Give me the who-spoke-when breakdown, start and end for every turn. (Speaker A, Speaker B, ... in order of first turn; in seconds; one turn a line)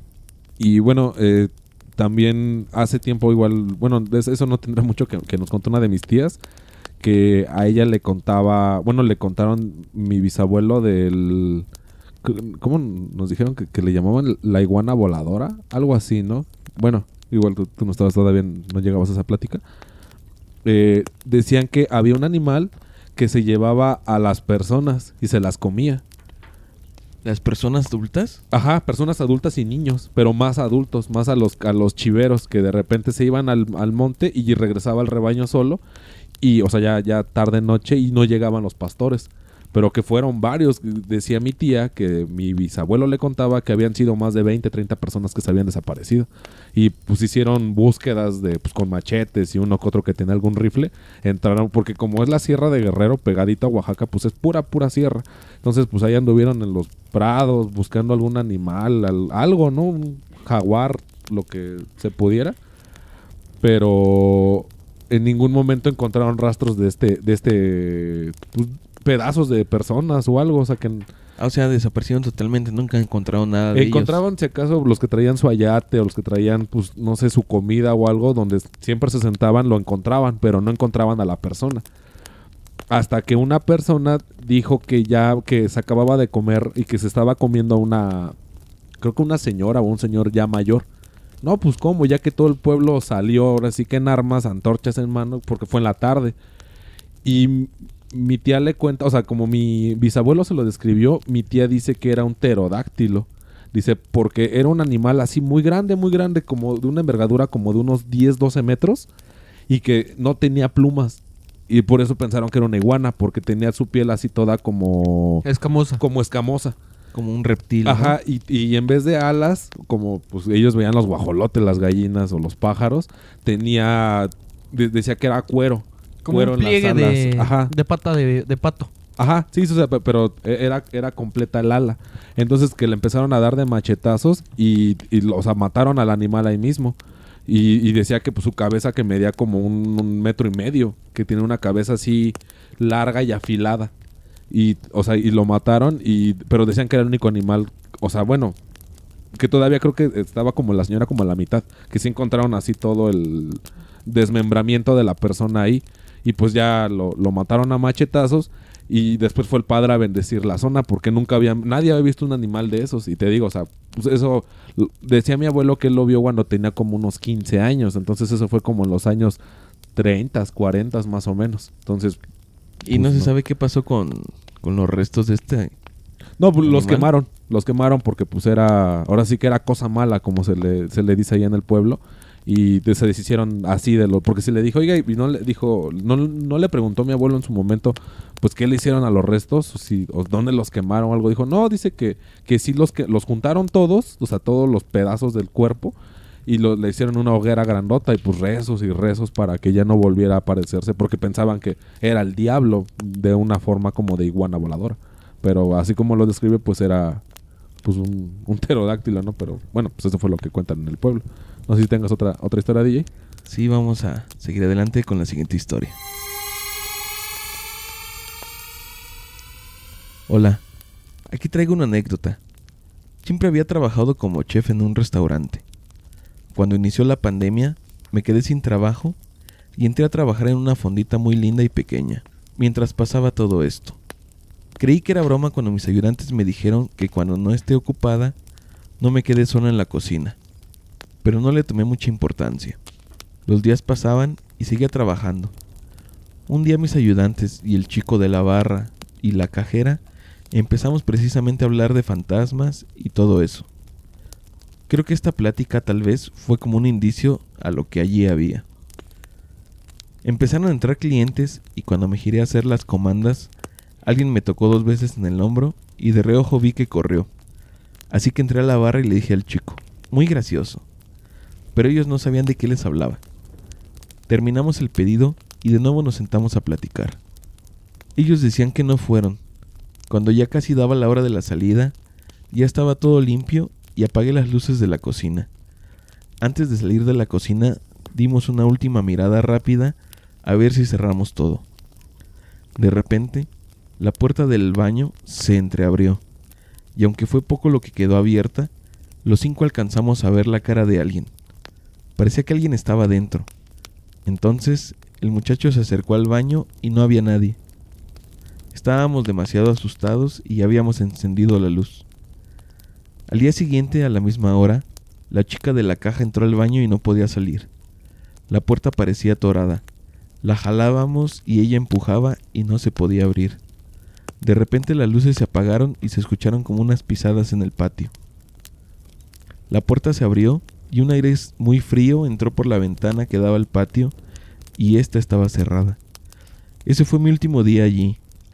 Speaker A: 0.6-6.4
Speaker A: 7.0-11.7
Speaker A: 12.2-19.6
Speaker A: 20.6-26.0
Speaker B: 27.2-28.4
Speaker A: 28.5-35.8
Speaker A: 36.4-62.6
Speaker A: 63.6-71.1
Speaker B: 71.4-74.2
Speaker A: 73.7-81.8
Speaker A: 82.9-88.3
Speaker A: 89.0-90.8
Speaker A: 91.4-96.3
Speaker A: 97.2-109.1
Speaker A: 109.7-115.4
Speaker C: 115.4-116.0
Speaker A: 116.0-116.8
Speaker B: 117.1-118.2
Speaker A: 117.8-127.7
Speaker C: 126.2-128.9
Speaker A: 129.2-143.9
Speaker A: 144.5-148.6
Speaker A: 149.3-169.4
Speaker A: 169.9-172.2
Speaker B: 172.8-175.7
Speaker A: 172.9-173.3
Speaker A: 176.4-207.2
Speaker B: 176.6-177.1
Speaker A: 207.8-213.1
Speaker B: 213.4-216.0
Speaker B: 220.3-220.6
Speaker B: 221.3-222.4
Speaker B: 223.2-225.6
Speaker B: 226.5-229.2
Speaker B: 229.8-234.0
Speaker B: 234.8-238.3
Speaker B: 239.0-240.4
Speaker B: 241.2-242.8
Speaker B: 243.4-245.5
Speaker B: 246.5-250.0
Speaker B: 250.5-253.7
Speaker B: 254.9-258.6
Speaker B: 260.2-263.5
Speaker B: 264.0-267.3
Speaker B: 268.1-270.8
Speaker B: 271.7-273.2
Speaker B: 274.3-277.2
Speaker B: 278.1-279.4
Speaker B: 280.1-281.9
Speaker B: 282.5-285.5
Speaker B: 286.4-291.6
Speaker B: 292.8-296.2
Speaker B: 296.9-298.7
Speaker B: 299.2-301.3
Speaker B: 302.2-303.5
Speaker B: 304.2-307.6
Speaker B: 308.7-312.1
Speaker B: 313.3-317.7
Speaker B: 318.5-319.8
Speaker B: 320.4-323.6
Speaker B: 324.4-328.1
Speaker B: 329.7-334.1
Speaker B: 334.8-336.0
Speaker B: 336.8-338.2